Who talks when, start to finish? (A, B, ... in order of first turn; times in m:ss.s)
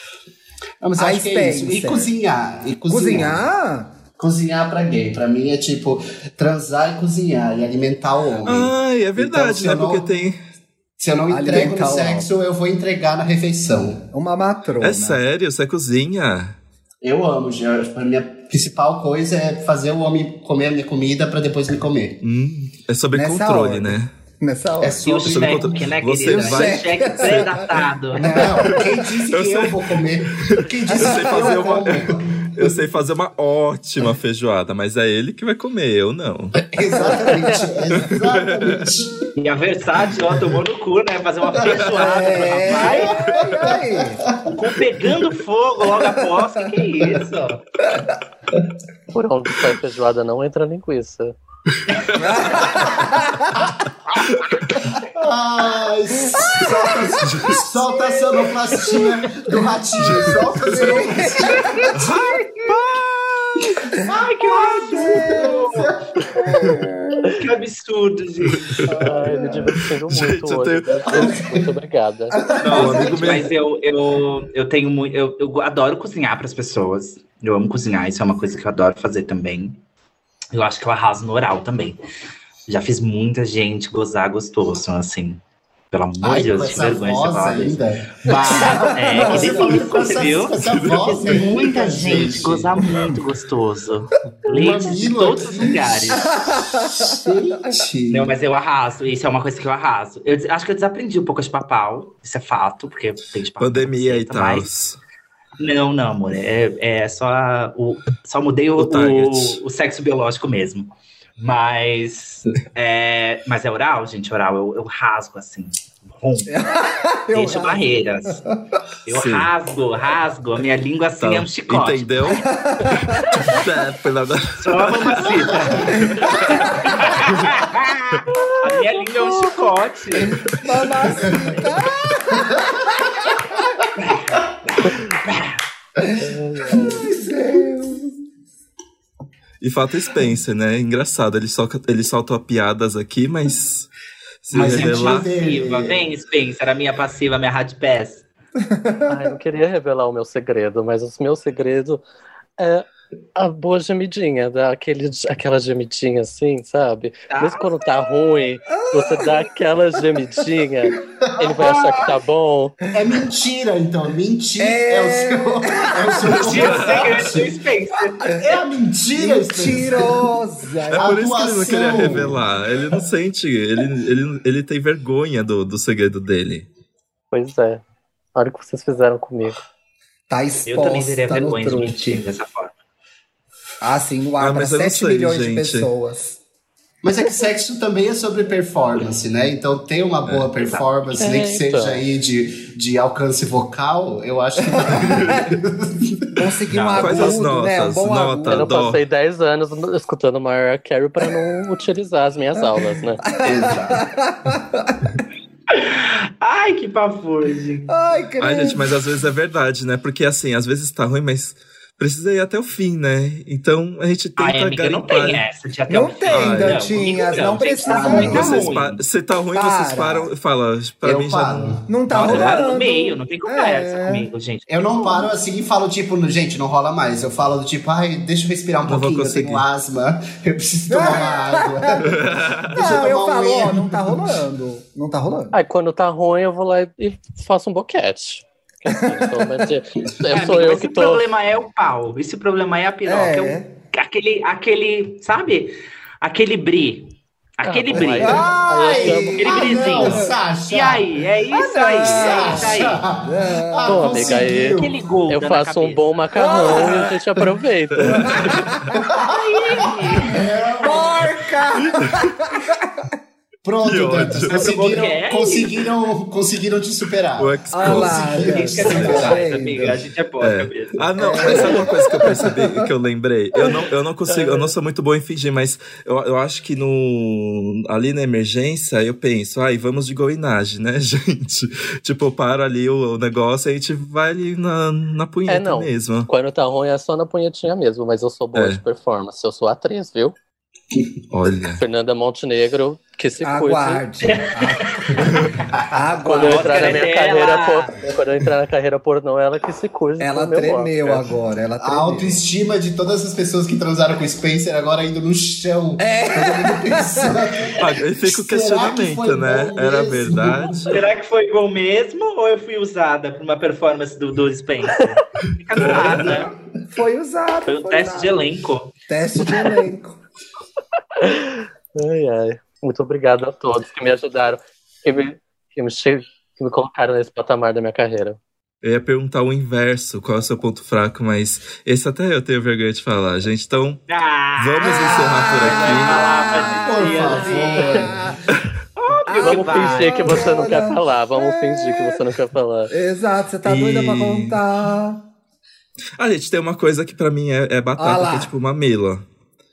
0:00.8-0:03.4 A
0:01.0-0:02.1 B
0:02.9-0:03.9 B
0:04.2-0:10.0 A
0:08.4-0:10.4 C
0:11.0-0:14.1 A
0:11.3-0:12.3 B
0:14.1-0:15.2 B
0:14.8-0:16.6 C
0:17.0-0:22.2 A
0:22.2-0:24.1 C
0:23.1-0:25.0 B
0:24.8-0:26.7 A
0:25.0-0:28.5 D
0:25.2-0:27.5 C
0:26.4-0:28.9 B
0:28.1-0:32.8 A
0:28.6-0:36.6 C
0:30.9-0:31.8 B
0:36.6-0:39.2 A
0:36.9-0:37.7 B
0:37.9-0:38.9 C
0:39.4-0:43.1 D
0:41.6-0:44.5 A
0:41.9-0:44.3 B
0:43.2-0:43.5 C
0:44.4-0:47.6 D
0:46.2-0:46.5 B
0:49.1-0:51.4 E
0:51.7-0:52.8 C
0:52.1-0:53.7 B
0:54.2-0:54.7 C
0:55.0-1:01.8 A
0:56.2-0:59.1 B
0:57.2-0:57.6 C
1:00.1-1:00.4 C
1:00.1-1:02.1 B
1:01.4-1:02.8 D
1:01.9-1:03.1 C
1:03.2-1:07.4 B
1:04.0-1:06.0 D
1:04.9-1:06.4 A
1:07.4-1:09.0 D
1:08.5-1:08.9 C
1:08.9-1:09.4 A
1:08.9-1:12.4 E
1:09.2-1:09.7 B
1:10.1-1:11.4 C
1:11.1-1:11.6 A
1:12.4-1:13.4 A
1:12.6-1:13.5 C
1:12.6-1:19.8 D
1:12.7-1:13.1 B
1:20.5-1:22.0 D
1:22.7-1:36.3 D
1:26.2-1:32.7 A
1:28.6-1:29.7 B
1:30.6-1:32.7 C
1:32.9-1:33.2 B
1:34.4-1:38.3 A
1:36.1-1:37.8 B
1:38.1-1:44.7 D
1:43.6-1:45.0 C
1:45.6-1:56.6 D
1:48.8-1:49.6 C
1:56.5-1:57.8 B
1:57.3-1:58.4 D
1:59.0-2:02.3 D
1:59.1-1:59.5 C
2:01.2-2:02.5 C
2:02.3-2:03.6 B
2:03.1-2:05.4 C
2:04.6-2:10.4 D
2:05.6-2:06.0 A
2:05.9-2:07.1 B
2:10.2-2:13.4 B
2:11.2-2:11.6 A
2:12.4-2:12.7 A
2:14.1-2:15.6 D
2:16.2-2:17.0 E
2:16.7-2:18.2 B
2:16.7-2:17.0 A
2:19.6-2:23.9 C
2:24.4-2:25.3 C
2:24.5-2:26.0 A
2:24.5-2:28.2 D
2:28.7-2:29.4 B
2:29.1-2:32.0 E
2:32.6-2:42.8 E
2:37.3-2:37.7 D
2:38.8-2:39.5 B
2:41.6-2:42.1 D
2:42.9-2:47.5 A
2:44.6-2:46.4 B
2:46.3-2:48.6 D
2:46.4-2:47.3 C
2:48.2-2:48.5 B
2:48.4-2:50.3 A
2:49.1-2:51.2 B
2:50.9-2:56.7 C
2:50.9-2:52.5 A
2:51.7-2:52.3 B
2:57.3-2:57.8 E
2:58.3-2:59.6 E
3:00.3-3:02.2 B
3:00.6-3:02.7 D
3:03.8-3:06.4 B
3:04.4-3:05.9 C
3:07.0-3:16.4 A
3:10.2-3:10.5 C
3:10.6-3:10.9 D
3:11.1-3:12.0 E
3:14.7-3:15.4 B
3:15.1-3:15.4 C
3:16.4-3:18.7 B
3:16.7-3:17.3 D
3:16.9-3:19.0 C
3:18.5-3:23.2 E
3:22.6-3:25.1 B
3:23.4-3:24.0 A
3:25.7-3:27.9 D
3:27.9-3:28.9 B
3:28.4-3:35.4 C
3:34.4-3:39.0 D
3:35.9-3:38.8 B
3:36.3-3:36.9 C
3:37.8-3:38.6 A
3:37.9-3:42.6 C
3:39.5-3:40.3 B
3:41.0-3:41.9 A
3:41.9-3:44.3 B
3:42.1-3:44.7 D
3:44.7-3:54.3 A
3:44.9-3:45.3 B
3:48.8-3:49.6 C
3:50.9-3:52.1 B
3:52.0-3:52.8 C
3:52.7-3:55.5 B
3:55.5-4:01.2 E
3:58.9-3:59.6 B
4:00.3-4:08.4 D
4:03.0-4:03.7 B
4:07.6-4:09.6 E
4:08.2-4:10.4 B
4:08.8-4:11.0 A
4:09.4-4:13.0 D
4:11.5-4:14.5 B
4:12.0-4:14.9 A
4:13.8-4:18.4 E
4:14.4-4:16.0 D
4:16.3-4:17.1 B
4:18.0-4:19.0 C
4:18.1-4:19.0 B
4:18.9-4:21.3 A
4:19.3-4:20.4 D
4:20.8-4:23.0 B
4:21.8-4:22.3 C
4:23.6-4:29.4 A
4:23.8-4:24.7 C
4:24.3-4:25.9 D
4:27.4-4:46.3 C
4:27.7-4:29.9 B
4:28.4-4:31.6 D
4:31.2-4:32.6 B
4:31.4-4:31.8 A
4:34.3-4:34.7 E
4:45.5-4:50.3 E
4:48.5-4:48.8 C
4:51.3-4:51.8 C
4:51.8-4:54.0 E
4:53.4-4:57.0 B
4:54.2-4:55.2 D
4:56.2-5:01.2 E
4:56.4-4:57.9 D
5:00.2-5:02.4 B
5:01.8-5:11.0 A
5:06.0-5:07.4 B
5:07.8-5:11.0 C
5:10.9-5:16.5 D
5:15.8-5:16.3 C
5:15.9-5:16.4 A
5:16.9-5:18.4 B
5:17.6-5:18.9 D
5:19.1-5:20.2 B
5:21.2-5:28.4 E
5:28.8-5:34.0 C
5:34.1-5:38.1 D
5:34.6-5:36.3 C
5:34.8-5:38.4 B
5:36.6-5:38.2 A
5:39.0-5:40.7 D
5:39.3-5:42.2 B
5:39.4-5:42.9 E
5:42.9-5:45.2 B
5:43.6-5:44.6 C
5:46.2-5:49.2 C
5:48.0-5:48.5 B